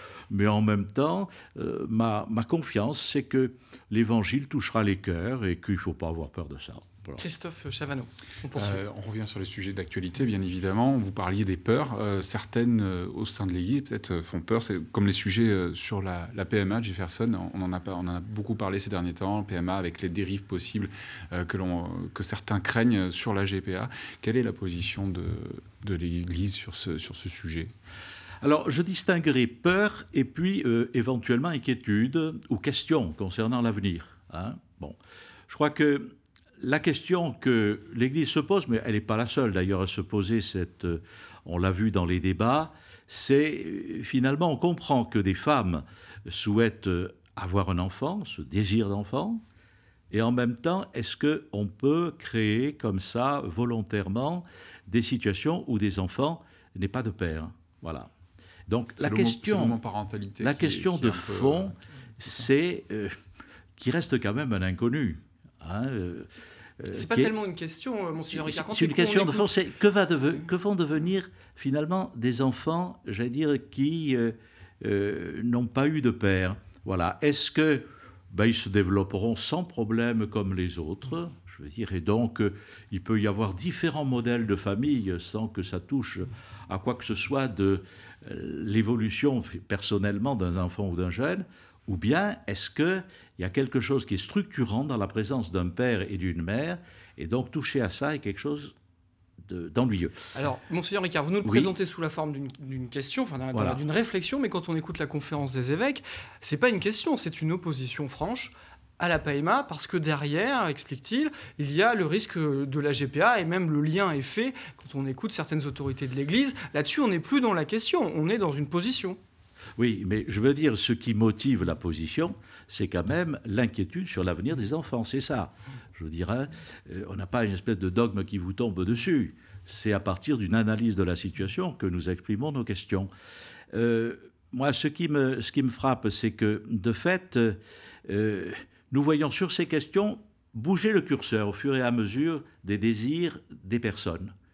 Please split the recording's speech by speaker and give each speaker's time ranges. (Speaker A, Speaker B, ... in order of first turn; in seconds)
Speaker A: 0.3-7.2, 28.4-35.0, 35.5-49.4, 50.1-58.1, 58.7-59.8, 60.4-63.1, 63.8-67.3, 68.3-98.8, 99.4-100.3, 101.4-101.7, 103.5-103.8, 119.8-133.1, 133.7-144.3
Speaker B: 7.2-8.8, 66.9-69.5, 100.3-119.2
Speaker C: 8.5-27.7, 59.0-61.8